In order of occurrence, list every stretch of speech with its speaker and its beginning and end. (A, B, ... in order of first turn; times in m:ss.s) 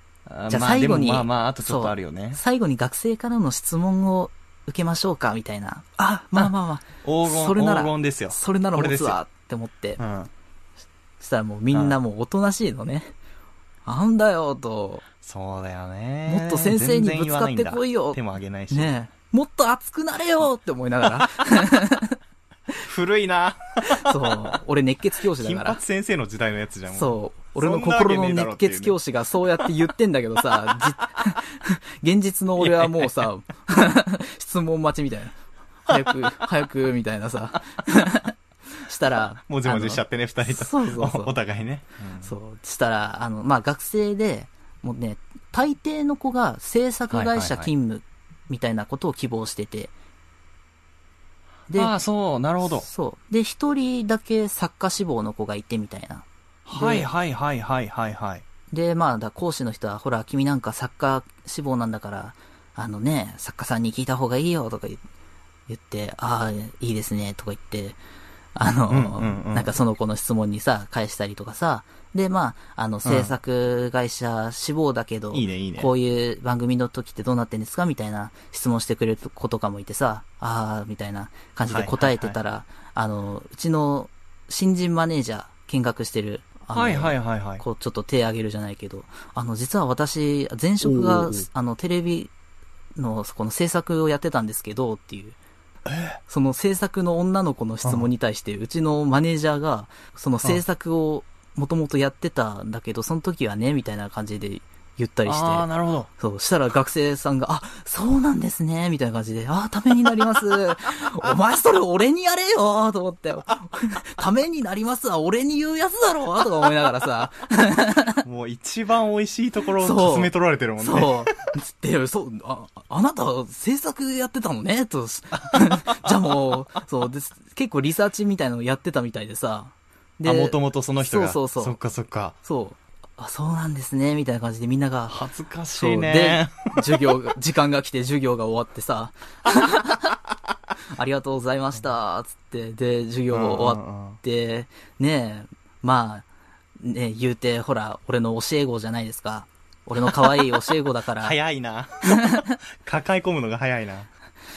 0:00.3-0:02.4 A
0:00.5-0:10.0 B
0:07.0-0:09.2 A
0:10.0-0:10.3 A
0:11.2-0:13.1 B
0:11.7-0:12.0 A
0:13.8-0:15.0 B
0:15.2-0:18.9 A
0:16.3-0:22.2 B
0:22.8-0:24.6 A
0:23.8-0:25.8 B
0:25.3-0:29.0 A
0:26.9-0:41.4 B
0:32.6-0:33.3 A
0:35.9-0:36.3 A
0:39.4-0:42.3 A
0:42.2-0:49.9 B
0:47.1-0:47.7 A
0:51.7-0:52.9 A
0:52.8-0:57.1 B
0:56.6-0:58.4 A
0:58.7-1:05.0 B
1:05.7-1:08.0 B
1:08.6-1:32.3 B
1:08.9-1:09.7 A
1:13.0-1:13.3 A
1:15.3-1:15.9 A
1:21.7-1:22.4 A
1:26.7-1:27.6 A
1:30.8-1:31.4 A
1:33.0-1:35.4 B
1:35.8-1:36.2 A
1:36.3-1:58.2 B
1:45.2-1:46.1 A
1:58.2-2:01.3 A
1:59.8-2:11.8 B
2:05.4-2:06.5 A
2:10.2-2:12.4 A
2:12.4-2:15.2 B
2:15.1-2:17.1 A
2:15.7-2:20.1 B
2:20.9-2:26.2 B
2:23.3-2:24.2 A
2:26.8-2:31.4 B
2:31.2-2:34.1 A
2:32.1-2:32.4 B